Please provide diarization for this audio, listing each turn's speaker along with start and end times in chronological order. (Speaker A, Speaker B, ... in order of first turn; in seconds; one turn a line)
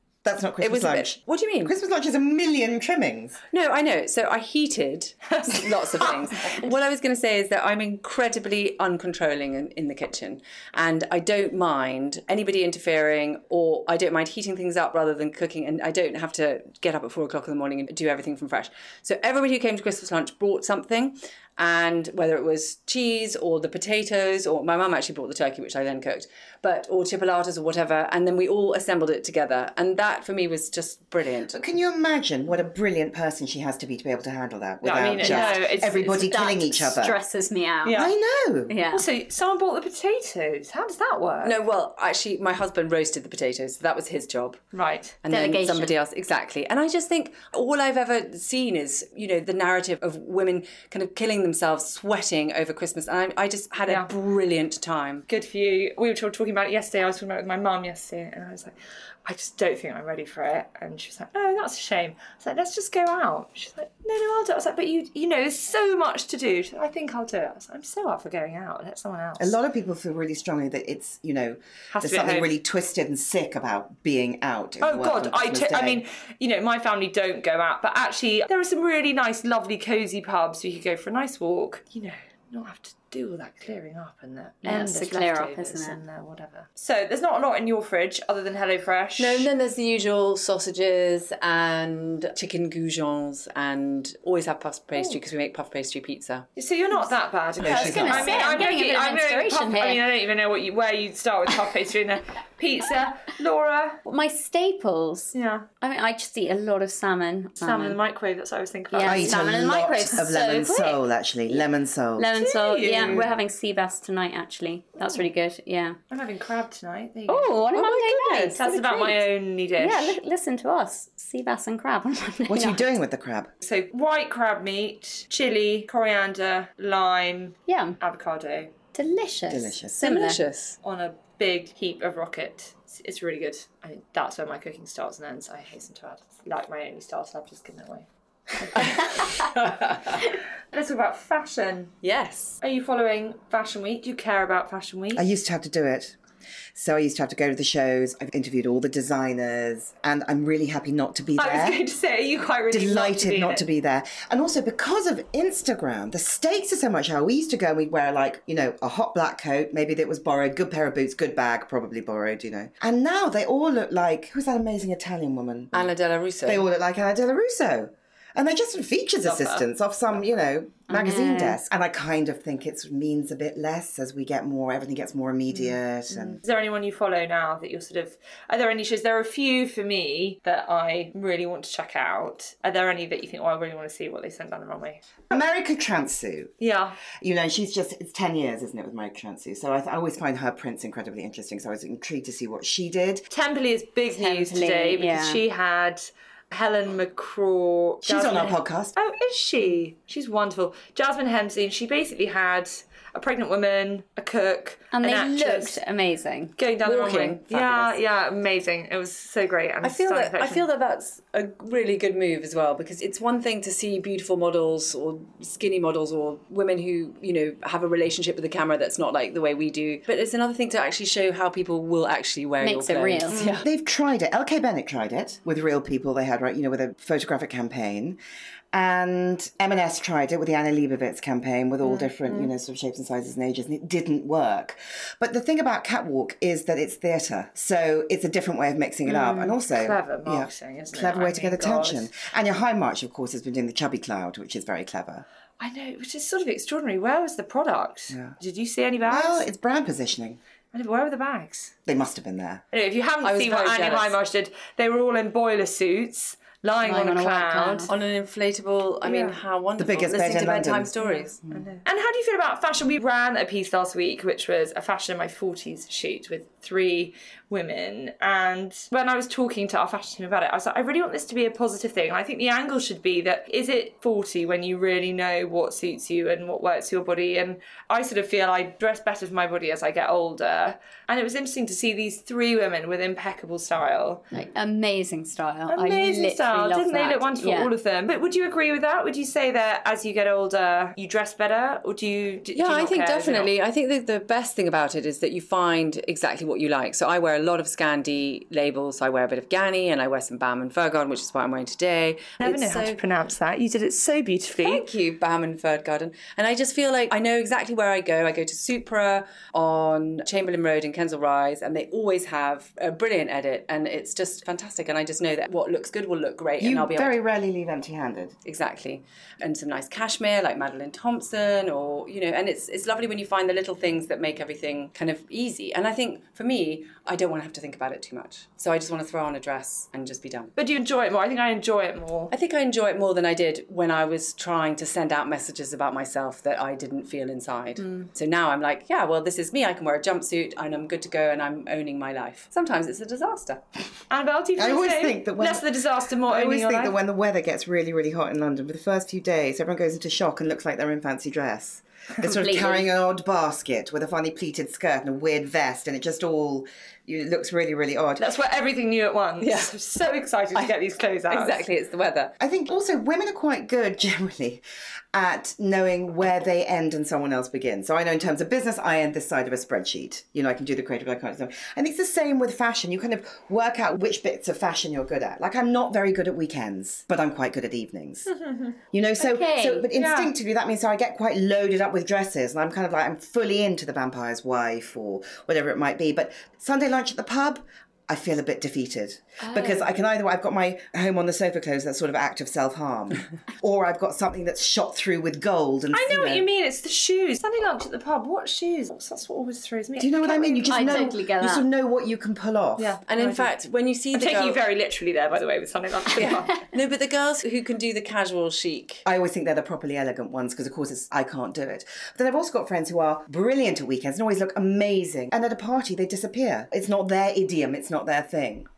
Speaker A: 0.2-3.4
Speaker B: 0.6-1.7
Speaker B: 3.5-31.6
Speaker C: 5.4-6.7
Speaker A: 31.5-37.1
Speaker C: 34.8-36.2
Speaker D: 35.2-38.0
Speaker C: 37.8-38.1
Speaker A: 37.9-38.7
Speaker D: 38.7-39.0
Speaker C: 38.9-41.6
Speaker B: 41.4-44.6
Speaker C: 44.7-45.1
Speaker B: 45.2-55.2
Speaker D: 45.3-46.0
Speaker C: 55.3-69.5
Speaker A: 69.4-76.0
Speaker C: 71.9-72.5
Speaker C: 74.8-89.5
Speaker D: 84.6-86.0
Speaker B: 89.2-96.5
Speaker C: 96.5-104.0
Speaker A: 97.6-98.6
Speaker D: 97.6-100.1
Speaker D: 104.0-108.0
Speaker C: 105.3-105.7
Speaker C: 107.6-109.4
Speaker D: 108.9-111.6
Speaker A: 109.0-112.4
Speaker D: 112.2-116.0
Speaker C: 112.4-113.3
Speaker A: 112.9-113.3
Speaker C: 116.1-117.5
Speaker D: 117.3-119.3
Speaker B: 117.7-118.6
Speaker C: 118.5-120.2
Speaker D: 119.8-122.9
Speaker A: 122.5-123.5
Speaker C: 123.6-128.7
Speaker D: 127.7-128.0
Speaker D: 128.9-130.4
Speaker A: 129.5-130.0
Speaker B: 130.0-130.8
Speaker C: 130.8-138.1
Speaker C: 138.6-139.3
Speaker B: 138.8-140.3
Speaker C: 140.7-141.9
Speaker B: 142.0-142.6
Speaker C: 142.6-145.2
Speaker A: 145.1-146.2
Speaker A: 146.7-151.8
Speaker C: 151.4-153.7
Speaker A: 152.7-165.9
Speaker B: 165.7-166.6
Speaker A: 166.4-176.4
Speaker C: 169.2-169.6
Speaker D: 170.9-171.6
Speaker C: 175.5-185.0
Speaker A: 185.3-186.5
Speaker C: 186.6-187.0
Speaker A: 187.2-193.2
Speaker C: 193.3-205.8
Speaker D: 194.1-195.4
Speaker A: 198.0-198.9
Speaker D: 204.9-206.6
Speaker C: 206.6-210.7
Speaker B: 206.8-207.9
Speaker B: 209.8-223.6
Speaker D: 222.6-223.4
Speaker A: 223.6-228.2
Speaker A: 228.7-245.2
Speaker C: 231.9-232.5
Speaker C: 239.1-242.1
Speaker C: 245.6-249.4
Speaker A: 248.1-248.4
Speaker A: 249.0-250.4
Speaker C: 250.7-251.7
Speaker A: 251.9-252.6
Speaker C: 252.7-257.9
Speaker B: 253.2-254.2
Speaker D: 256.8-257.9
Speaker B: 257.9-261.4
Speaker C: 259.0-259.4
Speaker A: 259.8-260.9
Speaker C: 261.0-284.2
Speaker D: 284.3-287.7
Speaker C: 285.7-293.5
Speaker B: 292.5-303.0
Speaker C: 302.4-304.8
Speaker B: 304.6-317.1
Speaker A: 316.6-318.3
Speaker B: 318.4-330.5
Speaker C: 330.6-332.3
Speaker B: 332.3-343.6
Speaker C: 337.8-338.1
Speaker C: 344.1-346.9
Speaker A: 344.6-358.3
Speaker D: 352.3-352.9
Speaker C: 358.2-361.6
Speaker B: 359.4-359.7
Speaker B: 361.3-362.3
Speaker A: 362.4-364.6
Speaker A: 365.1-378.3
Speaker C: 378.3-378.8
Speaker A: 378.9-396.4
Speaker D: 379.2-379.9
Speaker C: 379.9-380.3
Speaker C: 389.6-389.9
Speaker C: 395.9-401.0
Speaker A: 400.0-403.0
Speaker D: 400.7-401.6
Speaker C: 402.8-403.5
Speaker B: 403.1-404.6
Speaker C: 404.1-406.6
Speaker B: 406.1-409.0
Speaker A: 409.0-418.7